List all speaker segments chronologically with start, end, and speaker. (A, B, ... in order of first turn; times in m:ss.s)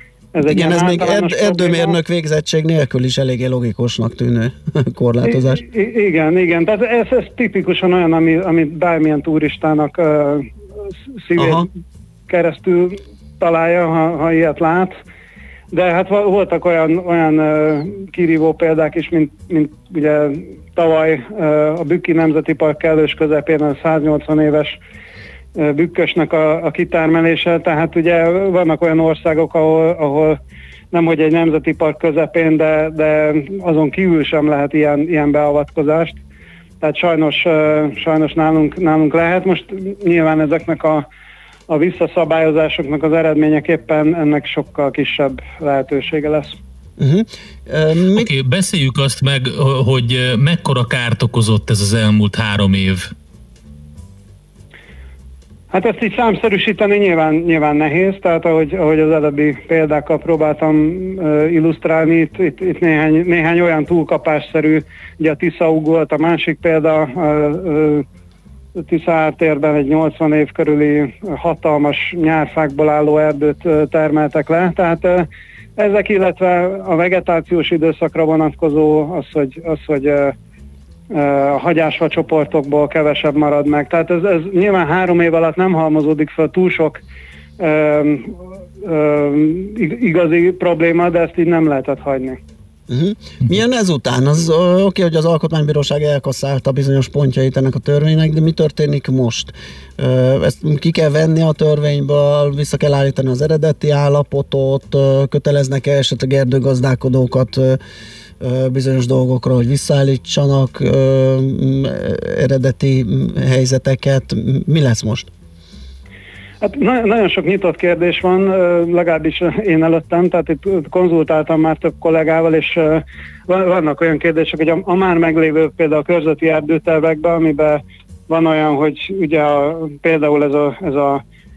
0:00.4-0:02.0 A
0:00.4-0:05.6 B
0:05.3-0:10.5 A
0:11.2-0:11.7 A
0:11.4-0:11.7 B
0:12.3-0:15.0 A
0:15.7-0:24.8 A
0:25.6-0:30.4 A
0:30.9-0:36.2 A
0:36.8-0:41.0 A
0:41.7-0:46.5 A
0:47.0-0:48.3 B
0:48.1-0:53.1 C
0:55.7-1:08.0 A
1:08.8-1:20.4 A
1:21.1-1:27.0 A
1:27.6-1:32.4 A
1:32.9-1:47.8 B
1:48.4-1:55.3 B
1:56.6-2:11.2 A